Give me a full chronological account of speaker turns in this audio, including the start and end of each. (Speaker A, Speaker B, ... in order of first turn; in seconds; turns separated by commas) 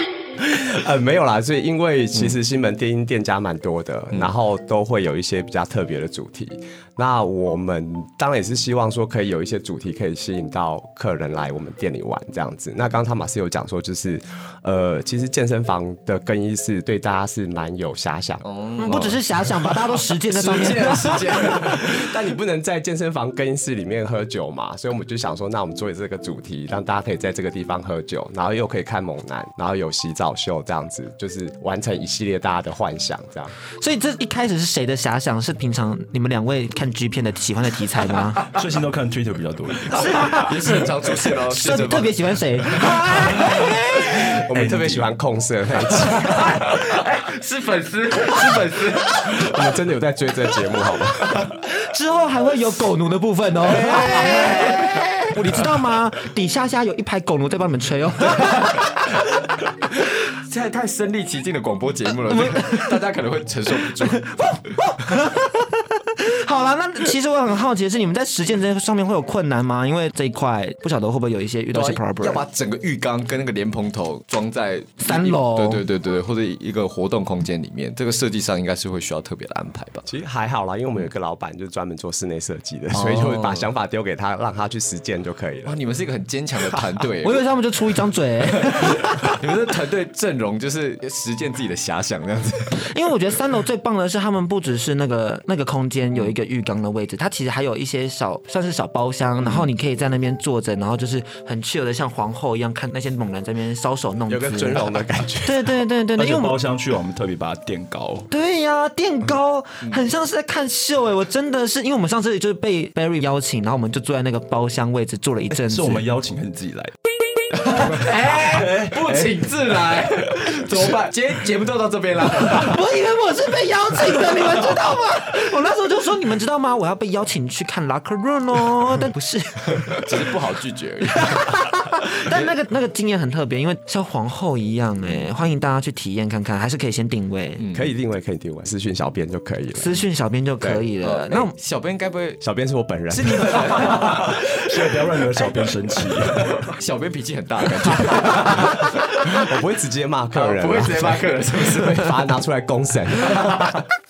Speaker A: 0.4-18.4, Speaker B: 18.4-22.0, Speaker C: 18.8-21.4, Speaker A: 21.8-33.5, Speaker C: 33.8-38.5, Speaker D: 38.5-40.4, Speaker C: 39.9-40.5, Speaker B: 40.3-42.2, Speaker C: 41.5-44.3, Speaker A: 44.2-46.8, Speaker D: 44.5-45.1, Speaker B: 46.1-49.6, Speaker A: 49.3-51.5, Speaker C: 51.7-59.1, Speaker B: 53.6-55.1, Speaker B: 60.3-64.2, Speaker C: 62.3-63.0, Speaker C: 63.8-72.4, Speaker B: 71.7-80.0, Speaker C: 75.0-75.8, Speaker A: 80.0-85.8, Speaker B: 82.9-83.7, Speaker B: 85.6-87.4, Speaker C: 87.2-89.3, Speaker B: 88.7-92.9, Speaker C: 92.8-104.9, Speaker B: 99.4-99.7, Speaker A: 104.3-105.7, Speaker C: 105.4-106.5, Speaker D: 106.2-108.3, Speaker C: 108.3-116.0, Speaker D: 115.5-116.9, Speaker B: 117.5-122.8, Speaker D: 117.7-119.5, Speaker D: 120.4-120.9, Speaker C: 122.4-130.1, Speaker B: 129.8-131.4, Speaker C: 131.1-137.6, Speaker B: 132.2-132.5, Speaker B: 137.6-137.9, Speaker A: 137.7-139.9, Speaker C: 139.8-141.5, Speaker B: 141.0-142.4, Speaker A: 142.4-143.9, Speaker B: 143.1-144.7, Speaker D: 143.8-146.7, Speaker B: 146.6-149.2, Speaker A: 147.9-153.7, Speaker B: 150.3-152.3, Speaker B: 153.3-153.7